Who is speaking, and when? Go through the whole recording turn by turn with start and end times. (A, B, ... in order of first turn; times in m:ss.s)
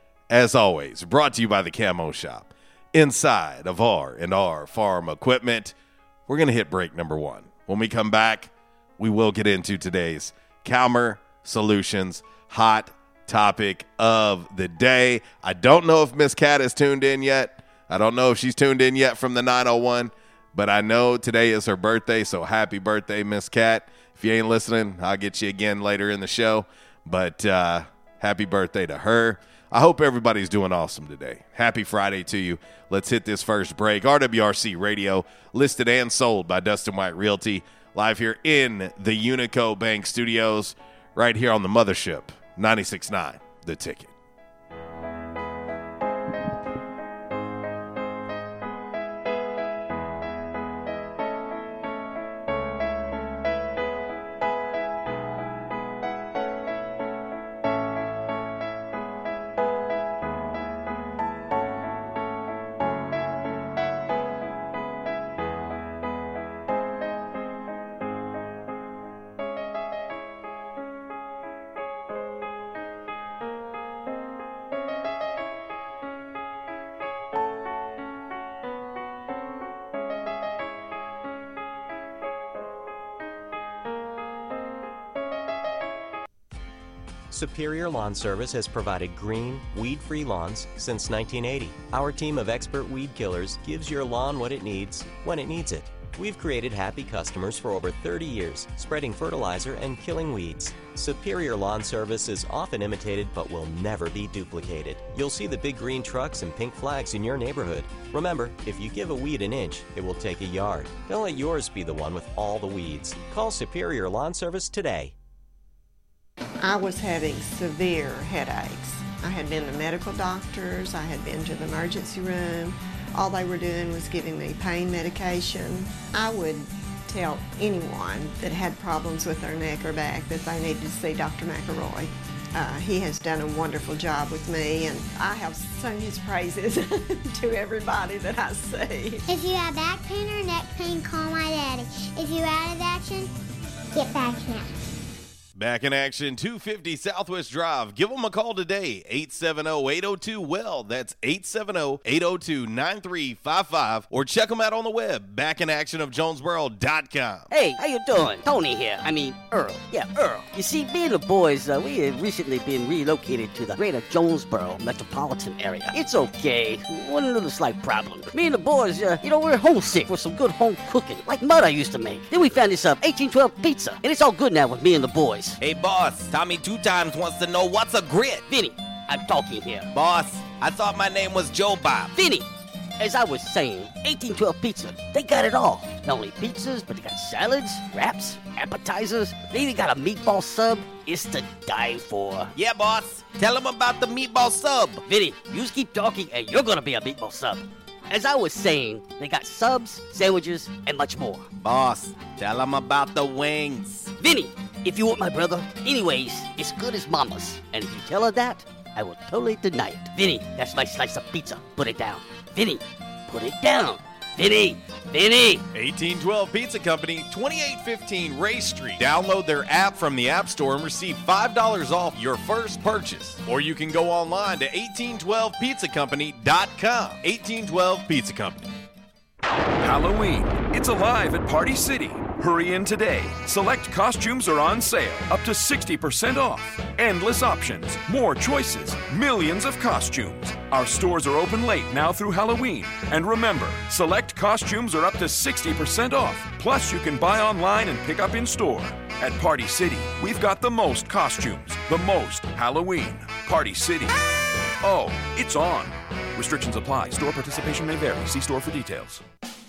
0:00.3-0:05.7 A
0:06.3-0:44.1 A
1:27.3-1:55.1 B
1:56.6-2:19.2 C
2:19.3-2:23.3 D
2:23.9-2:24.7 D
2:25.6-2:37.5 A
2:37.5-2:55.6 E
2:55.6-2:58.4 F
2:58.5-2:59.9 E
2:59.9-3:02.1 F
3:02.2-3:02.4 E
3:03.0-3:12.5 E
3:12.5-3:15.0 F
3:15.1-3:21.5 E
3:21.6-3:24.1 F
3:24.2-3:35.6 E
3:35.7-3:48.7 A
3:49.8-4:19.2 G